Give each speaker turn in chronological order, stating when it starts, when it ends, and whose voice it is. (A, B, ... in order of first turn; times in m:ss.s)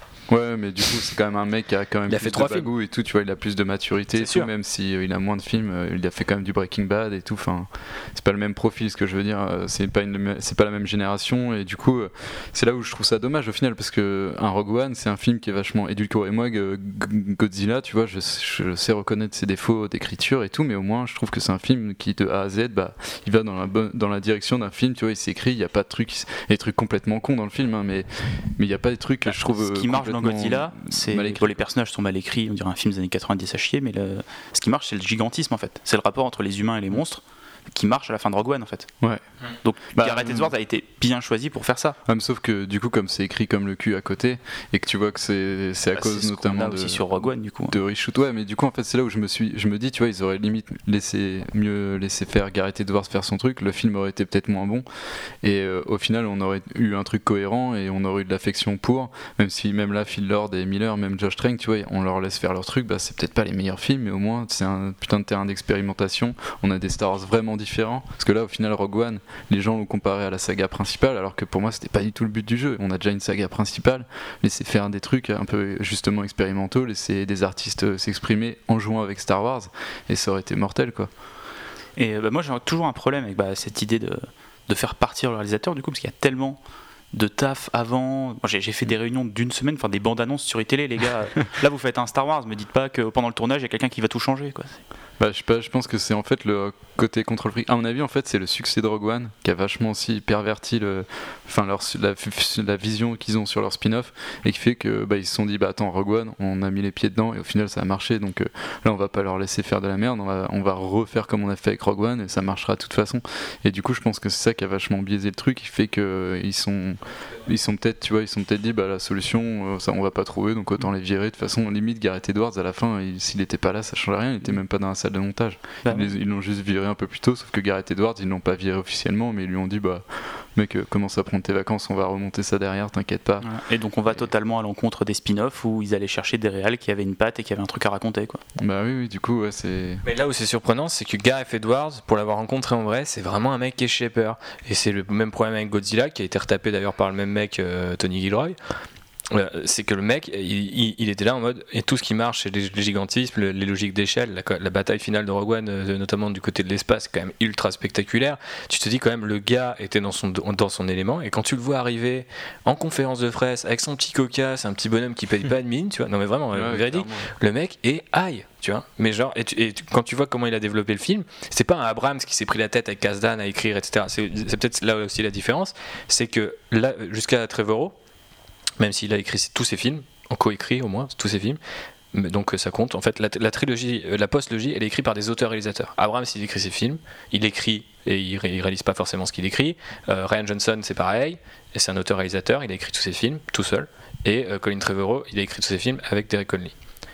0:00.3-0:31.5 A
0:02.1-0:02.7 B
0:04.2-0:04.5 B
0:29.3-0:37.2 C
0:37.7-0:38.9 C
0:39.6-0:42.0 C
0:40.0-0:40.5 A
0:42.0-0:47.1 A
0:45.9-0:47.8 C
0:47.7-0:54.8 A
0:55.4-1:21.1 A
1:22.0-1:26.6 C
1:27.1-1:34.8 C
1:35.2-2:13.5 A
2:05.8-2:06.1 C
2:13.4-2:18.4 C
2:18.6-2:20.0 A
2:20.0-2:28.6 B
2:29.3-2:57.9 B
2:46.5-2:47.3 A
2:58.8-3:01.6 B
3:02.1-3:16.7 B